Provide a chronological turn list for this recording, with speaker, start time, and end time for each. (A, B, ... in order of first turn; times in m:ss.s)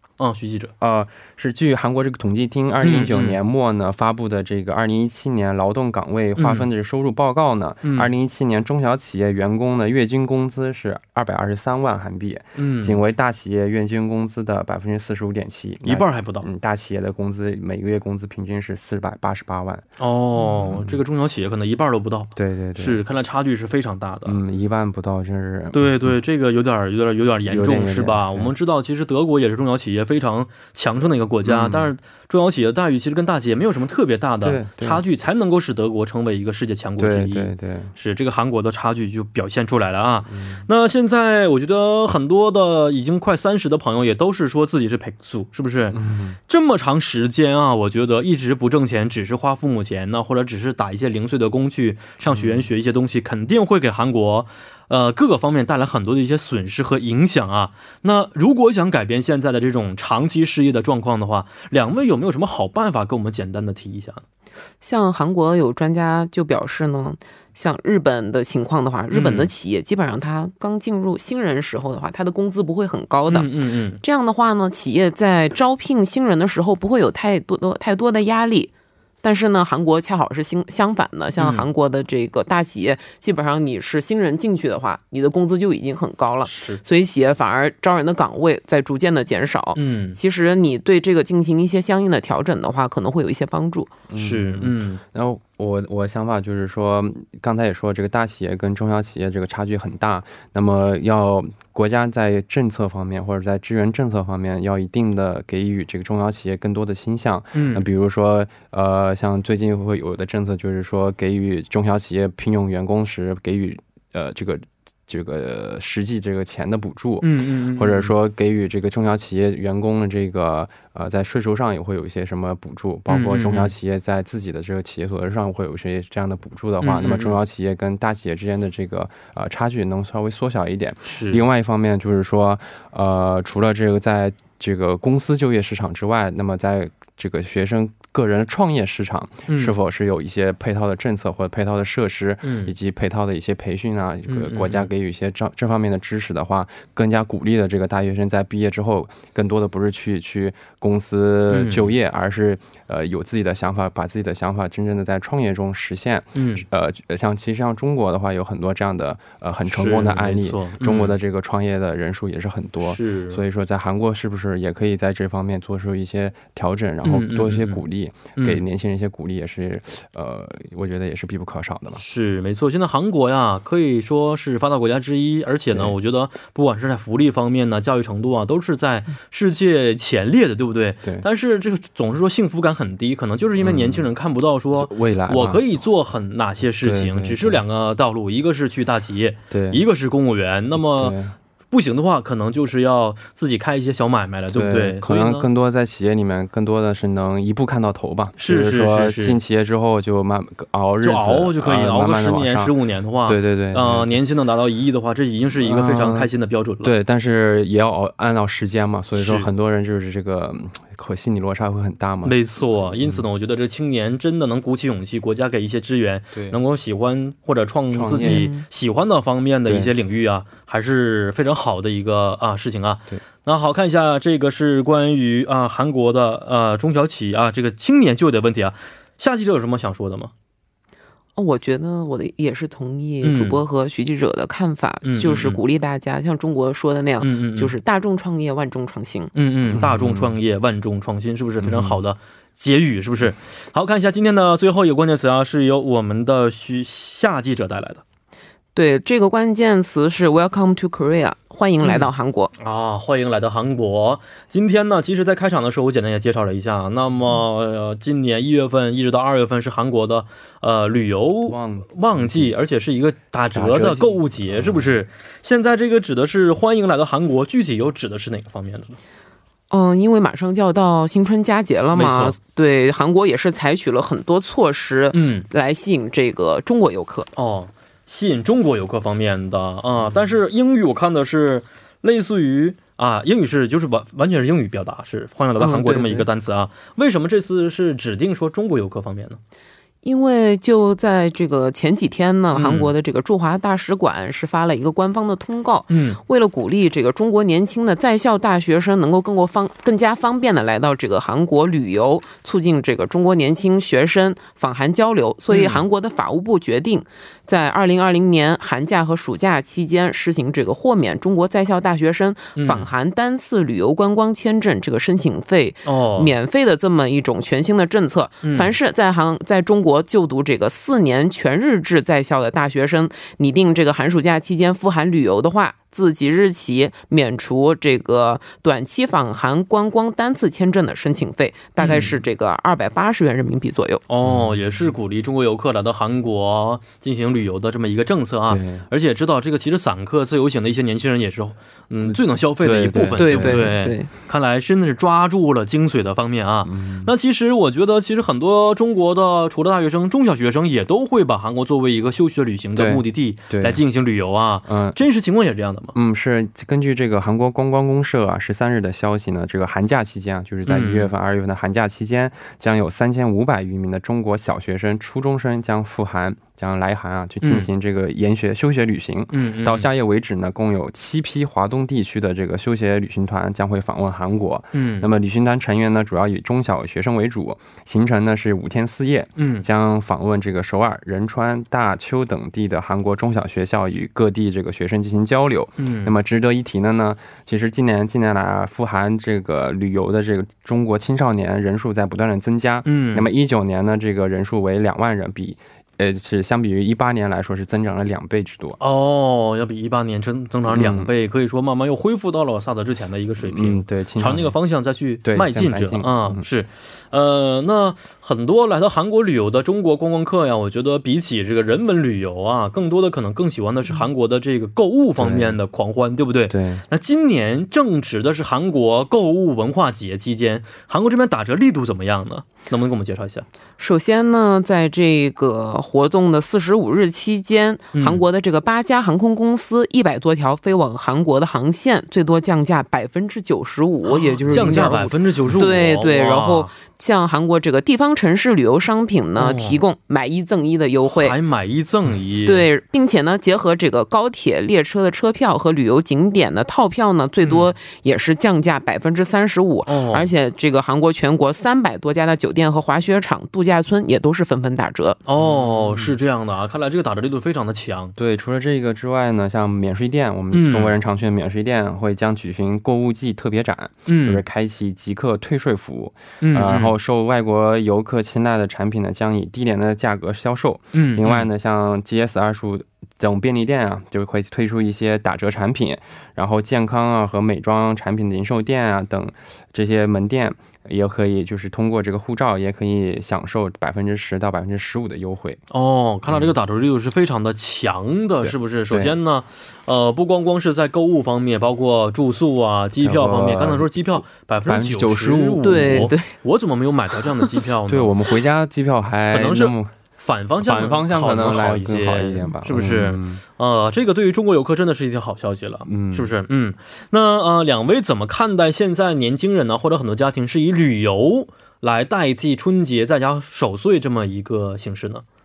0:00.2-0:00.7 A
0:00.8-0:19.9 B
0:02.8-0:03.4 A
0:06.4-0:06.7 A
0:07.8-0:08.1 A
0:12.6-0:13.0 A
0:15.8-0:16.5 A
0:20.0-0:24.4 A
0:20.6-0:21.0 B
0:22.4-0:23.0 B
0:24.3-0:26.1 B
0:25.7-1:04.2 A
0:27.5-0:28.5 B
0:31.4-0:31.9 B
0:34.4-0:35.0 B
0:37.0-0:37.9 B
0:40.3-0:40.7 B
0:45.9-0:46.4 B
0:52.3-0:52.7 B
1:04.8-1:13.5 C
1:09.1-1:09.5 A
1:13.3-1:14.0 A
1:14.0-1:18.7 C
1:19.2-1:33.9 C
1:21.4-1:21.7 A
1:26.4-1:26.8 A
1:29.8-1:30.2 A
1:34.1-2:52.0 B
1:34.2-1:35.0 A
1:47.5-1:47.8 A
1:57.2-1:58.1 A
2:03.1-2:03.7 A
2:06.8-2:07.4 A
2:11.0-2:11.4 A
2:19.5-2:19.8 A
2:22.4-2:22.7 A
2:24.3-2:24.9 A
2:31.5-2:31.9 A
2:36.4-2:36.6 A
2:39.7-2:41.2 A
2:42.8-2:43.4 A
2:47.0-2:47.8 A
2:48.4-2:48.6 A
2:52.0-3:11.2 A
3:03.6-3:04.1 B
3:04.7-3:05.6 B
3:06.8-3:07.6 B
3:09.5-3:09.8 B
3:10.8-3:11.4 B
3:11.7-3:15.5 A
3:14.5-3:22.7 B
3:18.4-3:19.4 A
3:21.0-3:26.9 A
3:23.3-3:24.1 B
3:25.6-3:26.3 B
3:26.8-3:32.4 B
3:29.1-3:29.5 A
3:32.2-3:50.3 A
3:33.0-3:33.3 B
3:36.3-3:36.6 B
3:37.9-3:38.5 B
3:38.2-3:38.6 C
3:39.7-3:39.9 B
3:51.4-3:59.3 C
3:53.2-3:53.6 A
3:55.0-3:55.6 A
3:57.2-3:57.7 A
3:59.4-4:08.0 A
3:59.7-4:00.3 B
4:01.6-4:02.0 B
4:08.8-4:12.5 C
4:11.8-4:29.0 A
4:21.5-4:22.6 B
4:23.5-4:25.0 B
4:29.7-4:37.3 C
4:31.9-4:32.4 A
4:35.1-4:35.5 A
4:37.4-4:49.4 A
4:45.6-4:46.3 C
4:50.0-5:34.0 C
4:52.5-4:52.9 A
4:55.9-4:56.2 A
5:05.5-5:05.8 A
5:12.6-5:12.9 A
5:15.8-5:16.3 A
5:18.4-5:18.7 A
5:31.8-5:32.2 A
5:34.1-5:56.0 A
5:34.2-5:34.6 B
5:38.5-5:38.9 B
5:42.1-5:43.7 B
5:43.2-5:44.1 C
5:46.6-5:47.1 B
5:52.8-5:53.8 B
5:54.7-5:55.0 B
5:56.0-6:38.8 B
6:00.7-6:01.1 A
6:07.4-6:07.7 A
6:09.3-6:09.9 A
6:14.7-6:15.1 A
6:19.4-6:19.7 A
6:25.8-6:26.1 A
6:32.8-6:33.3 A
6:38.8-7:03.5 A
6:40.7-6:41.1 B
6:43.4-6:44.5 B
6:45.2-6:46.4 B
6:55.2-6:55.6 B
6:56.5-6:56.8 B
7:03.8-7:21.4 C
7:07.9-7:08.2 A
7:14.1-7:16.7 A
7:19.4-7:19.8 A
7:21.1-7:22.7 A
7:22.5-7:35.2 C
7:27.4-7:27.7 A
7:29.9-7:30.3 A
7:35.3-7:38.1 A
7:35.4-7:36.2 B
7:38.2-8:05.6 B
7:40.5-7:40.9 A
7:44.1-7:44.4 A
7:46.4-7:47.0 A
7:50.9-7:51.5 A
8:05.7-8:18.1 A
8:06.3-8:06.6 B
8:08.4-8:09.2 B
8:13.0-8:16.1 B
8:15.6-8:16.3 C
8:17.9-8:19.9 B
8:19.3-8:35.2 A
8:20.6-8:23.4 B
8:25.9-8:26.3 B